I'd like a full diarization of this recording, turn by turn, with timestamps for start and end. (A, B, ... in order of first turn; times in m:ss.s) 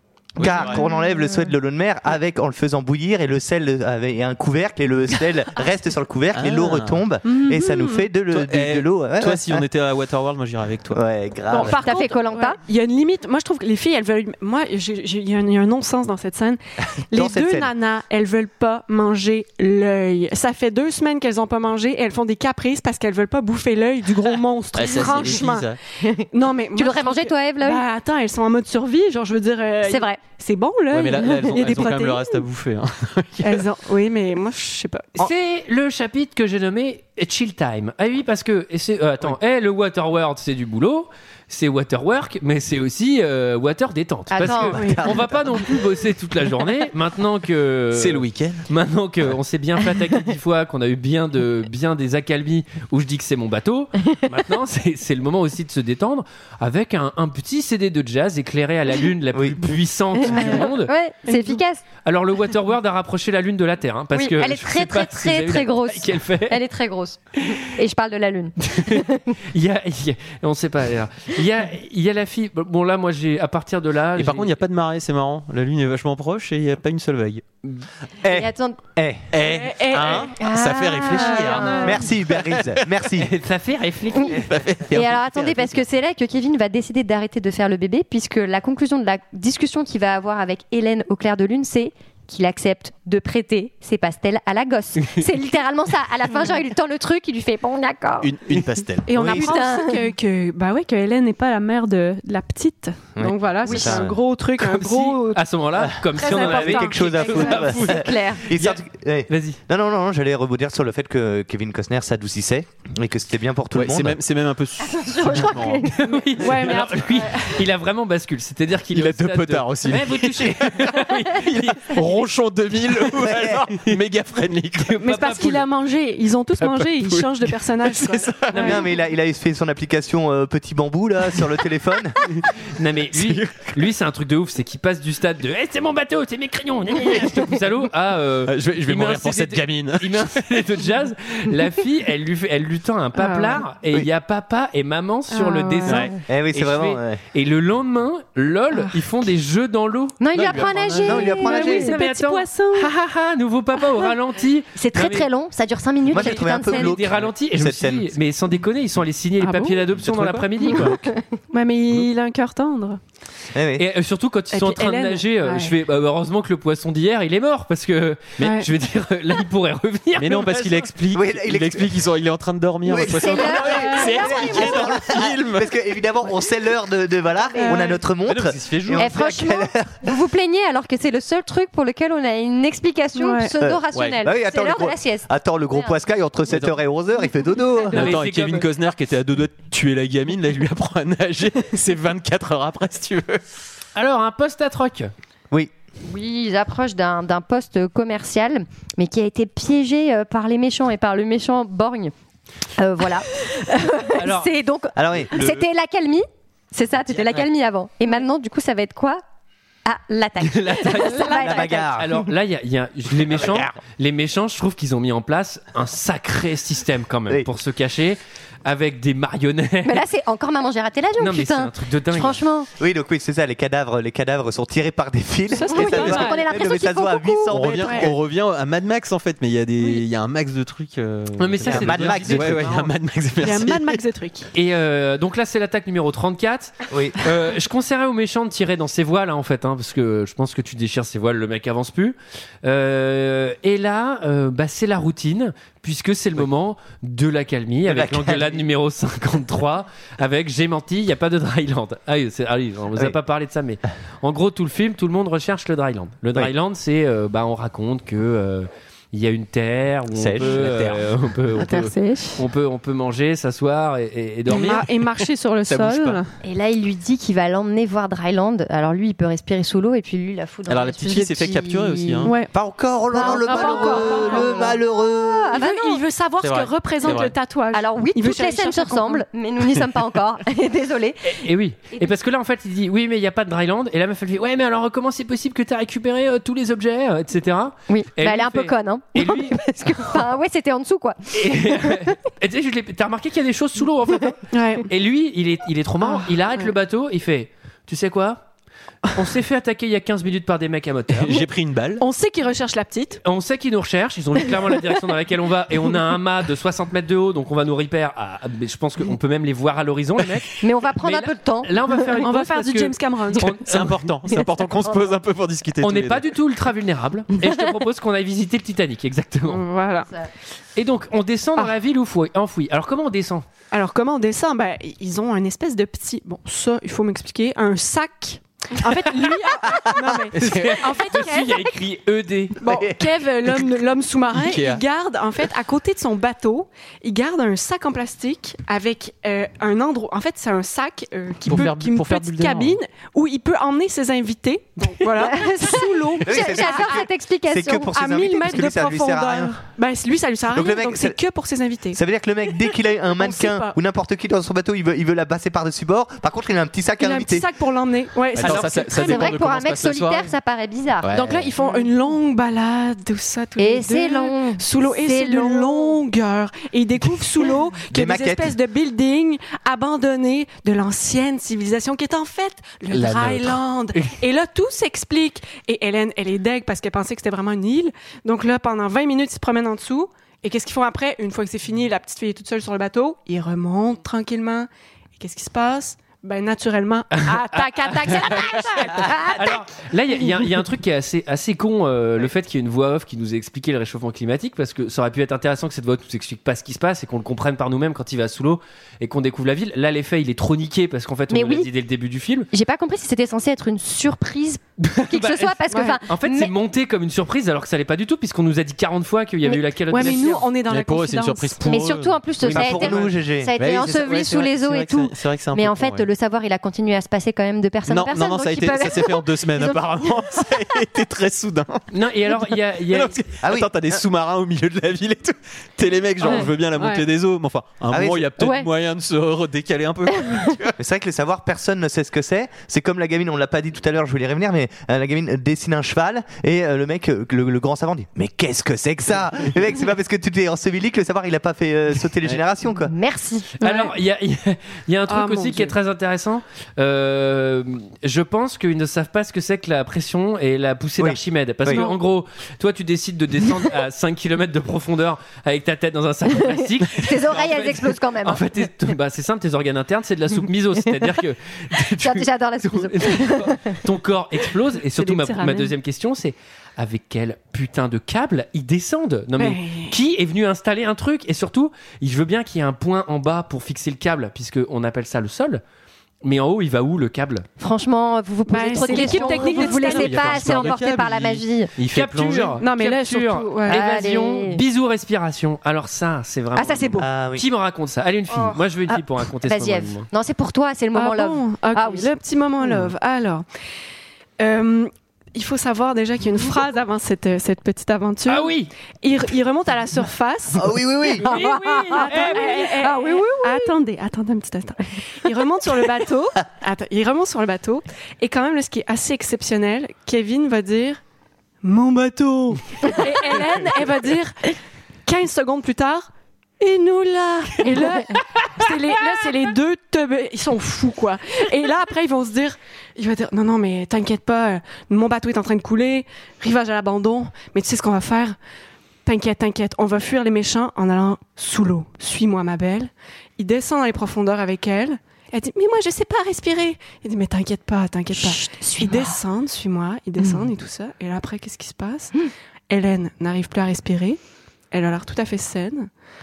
0:00.4-0:09.7 A
0:00.4-0:00.8 B
0:06.3-0:07.1 B
0:07.2-0:08.1 C
0:08.3-0:11.0 B
0:10.9-0:11.8 A
0:11.5-0:25.8 C
0:11.6-0:12.6 D
0:17.1-0:17.7 A
0:24.7-0:25.8 B
0:24.9-0:25.3 D
0:26.0-0:27.8 D
0:26.3-0:32.4 C
0:29.8-0:30.2 D
0:30.9-0:33.6 B
0:33.4-0:35.2 C
0:35.2-1:00.9 E
0:44.3-0:45.1 D
0:44.8-0:45.3 A
0:47.9-0:48.7 B
1:00.2-1:01.8 D
1:01.3-1:01.6 C
1:02.0-1:06.6 E
1:04.1-1:09.3 D
1:08.7-1:14.5 E
1:14.2-1:17.4 B
1:18.2-1:19.3 A
1:18.3-1:18.8 D
1:19.3-1:22.9 B
1:19.4-1:20.3 C
1:20.4-1:22.0 D
1:21.1-1:22.0 C
1:21.8-1:23.3 A
1:23.2-1:24.4 E
1:24.4-1:25.8 B
1:24.9-1:38.4 D
1:38.2-1:39.2 B
1:39.1-1:45.4 C
1:39.1-1:39.5 A
1:39.2-1:40.1 D
1:43.2-1:44.1 A
1:43.6-1:44.0 D
1:44.6-1:49.6 E
1:45.8-1:54.2 A
1:46.2-1:47.8 C
1:47.6-1:48.4 D
1:53.7-1:55.9 B
1:54.8-1:56.2 D
1:55.9-2:02.0 E
1:56.4-1:57.6 C
1:58.9-2:05.1 B
2:03.2-2:03.6 A
2:04.8-2:05.6 E
2:05.0-2:08.8 C
2:06.6-2:08.8 B
2:08.6-2:12.2 A
2:12.7-2:30.2 E
2:13.1-2:13.8 B
2:18.4-2:20.4 B
2:23.2-2:23.6 C
2:25.3-2:26.1 C
2:25.9-2:26.1 B
2:26.3-2:27.2 A
2:30.2-2:32.0 D
2:30.3-2:31.2 B
2:31.0-2:32.0 A
2:31.4-2:32.9 C
2:31.6-2:35.3 E
2:34.8-2:37.1 D
2:36.1-2:38.1 A
2:36.2-2:41.0 E
2:39.4-2:39.8 C
2:40.0-2:40.5 B
2:41.5-2:43.0 C
2:43.6-2:43.8 A
2:43.8-2:50.9 E
2:44.5-2:45.7 C
2:48.4-2:48.7 C
2:50.2-2:55.7 B
2:51.1-2:52.0 A
2:52.8-3:00.0 A
2:53.0-2:55.1 D
2:57.6-2:58.0 C
2:58.2-2:59.1 B
2:59.0-3:06.0 D
3:03.2-3:03.5 C
3:03.6-3:08.1 A
3:06.5-3:06.8 B
3:07.9-3:13.4 B
3:07.9-3:08.7 E
3:14.0-3:15.1 E
3:16.0-3:22.1 D
3:22.8-3:29.2 D
3:24.2-3:24.5 E
3:25.0-3:25.7 A
3:29.8-3:31.9 D
3:30.4-3:40.0 E
3:31.3-3:32.2 A
3:33.3-3:33.7 B
3:39.8-3:42.7 D
3:41.2-3:42.4 E
3:42.8-3:48.2 A
3:45.5-3:46.4 C
3:45.7-3:47.5 D
3:47.5-3:54.0 B
3:47.8-3:48.1 C
3:51.4-3:52.8 E
3:51.6-3:52.8 A
3:53.4-3:54.5 C
3:54.5-4:24.9 E
3:56.9-3:57.2 A
4:07.8-4:08.6 A
4:20.2-4:20.7 A
4:20.4-4:21.8 B
4:21.6-4:22.4 D
4:24.5-4:26.3 C
4:24.7-4:26.2 B
4:26.4-4:32.3 D
4:30.7-4:32.4 B
4:32.2-4:32.5 C
4:32.5-4:35.6 A
4:33.1-4:36.0 D
4:33.2-4:34.7 C
4:35.5-4:39.2 C
4:36.4-4:37.4 B
4:37.7-4:41.4 D
4:41.2-4:50.2 E
4:47.9-4:52.1 D
4:51.3-4:58.4 E
4:54.5-4:54.9 C
4:59.1-5:01.4 E
5:01.1-5:02.0 B
5:02.0-5:03.2 C
5:03.2-5:14.0 E
5:10.6-5:11.7 D
5:12.2-5:13.6 C
5:13.6-5:16.3 B
5:15.8-5:19.6 E
5:19.5-5:20.1 C
5:20.8-5:23.5 E
5:23.7-5:31.6 C
5:30.4-5:30.8 B
5:30.4-5:32.6 E
5:32.6-5:47.0 C
5:32.7-5:33.0 A
5:34.3-5:34.8 B
5:41.5-5:42.8 B
5:45.2-5:47.9 D
5:46.2-5:49.6 A
5:47.9-5:52.0 C
5:50.5-5:51.2 A
5:51.9-5:57.5 A
5:52.7-5:53.8 C
5:57.0-5:59.3 C
5:58.4-6:00.3 B
5:59.0-6:01.9 D
6:01.0-6:01.5 B
6:01.1-6:29.5 C
6:03.6-6:06.0 D
6:07.9-6:08.6 A
6:12.9-6:13.6 B
6:27.1-6:42.5 E
6:29.0-6:29.5 D
6:41.3-6:41.7 D
6:42.5-6:46.5 D
6:44.8-6:50.5 E
6:45.7-6:46.0 C
6:49.9-6:51.6 C
6:50.7-6:56.1 B
6:51.6-7:00.5 D
6:52.4-6:53.6 A
6:57.9-7:01.9 B
7:01.9-7:03.2 E
7:02.9-7:10.8 B
7:03.4-7:04.0 A
7:06.8-7:07.0 C
7:07.9-7:08.3 A
7:08.4-7:08.7 D
7:10.2-7:10.5 D
7:10.8-7:22.9 A
7:22.8-7:23.6 D
7:23.6-7:55.6 E
7:23.6-7:23.9 C
7:25.1-7:25.7 C
7:31.0-7:31.8 A
7:31.7-7:32.0 C
7:36.4-7:38.4 D
7:42.0-7:43.8 D
7:45.0-7:45.7 C
7:49.4-7:50.0 C
7:56.2-7:57.5 E
7:57.6-8:01.7 D
7:58.5-8:00.5 C
7:58.9-7:59.4 E
7:59.2-8:02.6 B
8:01.9-8:10.1 E
8:02.6-8:03.8 C
8:03.7-8:04.6 D
8:06.6-8:07.1 D
8:07.0-8:07.4 A
8:08.3-8:12.1 D
8:10.9-8:13.4 C
8:14.4-8:20.8 C
8:18.3-8:18.7 E
8:20.5-8:21.3 A
8:21.2-8:23.7 D
8:21.2-8:22.8 E
8:21.3-8:31.0 C
8:31.6-8:36.1 C
8:36.6-8:48.4 C
8:49.1-9:04.2 C
8:58.2-8:59.1 D
9:04.7-9:05.9 C